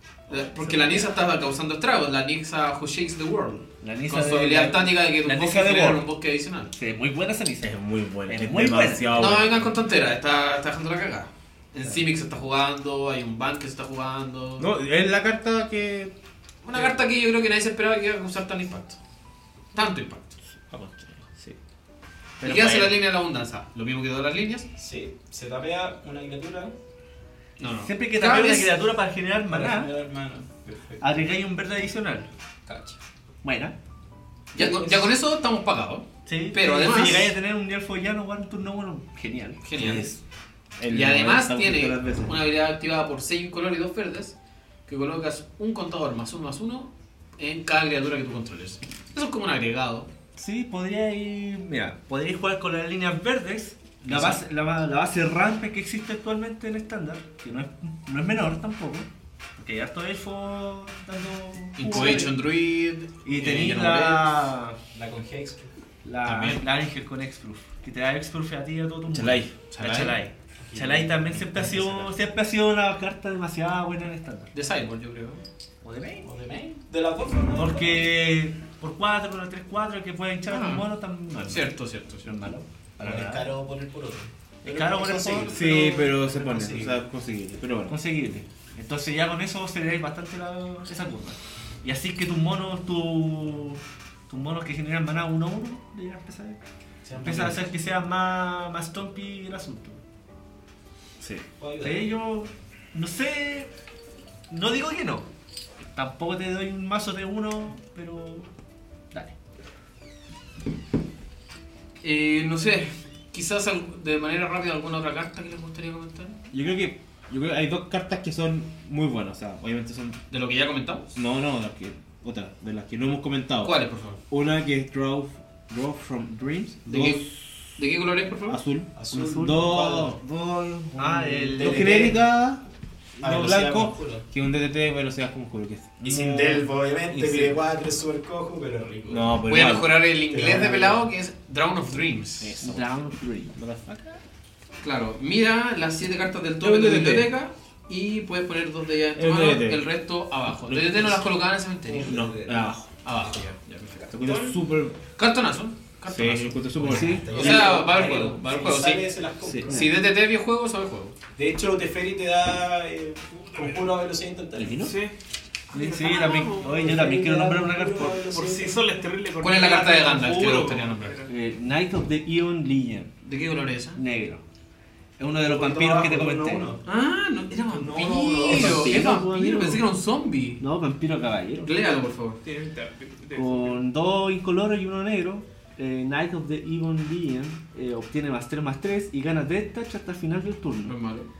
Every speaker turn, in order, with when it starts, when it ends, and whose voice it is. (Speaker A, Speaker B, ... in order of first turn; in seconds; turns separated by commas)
Speaker A: 0.3-6.7, Speaker B: 0.3-1.1, Speaker C: 3.8-6.0, Speaker C: 6.8-7.7, Speaker D: 7.6-9.7, Speaker C: 8.2-9.3, Speaker A: 9.1-14.7, Speaker D: 14.6-16.1, Speaker A: 16.6-19.0, Speaker A: 19.7-20.4, Speaker D: 20.7-21.6, Speaker D: 22.4-23.0, Speaker A: 22.4-24.7, Speaker B: 24.8-26.7, Speaker A: 27.6-28.7, Speaker C: 27.8-29.9, Speaker B: 29.5-31.1, Speaker C: 31.0-32.3, Speaker B: 32.7-33.0, Speaker C: 33.4-33.7, Speaker B: 34.5-35.1, Speaker A: 34.5-37.3, Speaker C: 36.2-39.6, Speaker A: 39.6-40.1, Speaker D: 39.8-40.2, Speaker D: 40.8-42.4, Speaker A: 40.9-44.4, Speaker A: 44.9-50.1, Speaker C: 50.4-62.4, Speaker A: 54.0-54.4, Speaker A: 61.8-64.3, Speaker C: 63.2-64.8, Speaker B: 64.9-65.7, Speaker C: 66.0-74.5, Speaker A: 66.2-66.6, Speaker D: 69.1-69.5, Speaker A: 69.2-70.2, Speaker B: 70.6-72.1, Speaker A: 74.5-75.4, Speaker C: 75.8-76.3, Speaker B: 76.2-78.1, Speaker C: 77.5-81.7, Speaker A: 80.5-80.8, Speaker A: 81.4-82.3, Speaker C: 82.2-83.5, Speaker B: 83.0-87.0, Speaker C: 84.6-86.1, Speaker D: 85.5-87.9, Speaker C: 87.9-96.6, Speaker B: 97.0-97.6, Speaker C: 97.2-100.0, Speaker D: 101.2-101.4, Speaker B: 101.6-102.1, Speaker C: 101.8-103.7, Speaker C: 104.5-105.3, Speaker C: 105.9-108.5, Speaker A: 112.0-116.4, Speaker D: 116.5-120.2, Speaker A: 120.3-121.2, Speaker D: 121.1-123.7, Speaker A: 123.6-124.2, Speaker D: 124.3-127.4, Speaker A: 126.9-128.6, Speaker D: 128.4-132.6, Speaker B: 128.9-130.2, Speaker C: 129.1-129.6, Speaker C: 130.9-132.2, Speaker B: 131.6-132.2, Speaker B: 133.2-134.2, Speaker D: 133.2-137.5, Speaker B: 136.0-139.4, Speaker D: 139.1-140.0, Speaker A: 139.4-142.6, Speaker B: 140.3-141.0, Speaker D: 142.4-142.9, Speaker C: 142.6-143.5, Speaker D: 143.6-144.2, Speaker A: 144.8-152.2, Speaker D: 146.6-147.3, Speaker D: 149.2-149.8, Speaker D: 150.7-151.3, Speaker B: 151.8-152.7, Speaker D: 152.1-152.9, Speaker A: 153.0-154.1, Speaker B: 154.1-154.6, Speaker D: 154.1-154.9, Speaker A: 155.1-159.1, Speaker D: 156.1-157.6, Speaker B: 156.8-159.8, Speaker C: 156.8-157.3, Speaker C: 159.6-159.9, Speaker A: 159.7-161.2, Speaker B: 161.3-164.9, Speaker C: 164.6-164.9, Speaker D: 164.6-164.9, Speaker E: 164.8-165.1, Speaker E: 165.7-167.0, Speaker C: 165.7-168.2, Speaker B: 166.7-169.1, Speaker E: 168.2-171.3, Speaker A: 169.4-171.2, Speaker C: 171.2-173.1, Speaker A: 173.2-174.0, Speaker C: 173.9-174.4, Speaker C: 175.2-176.7, Speaker B: 175.4-176.8, Speaker A: 176.8-180.6, Speaker B: 177.6-179.0, Speaker C: 178.3-179.8, Speaker C: 180.6-181.7, Speaker A: 181.6-182.4, Speaker E: 182.4-183.8, Speaker C: 183.3-190.9, Speaker A: 190.8-191.3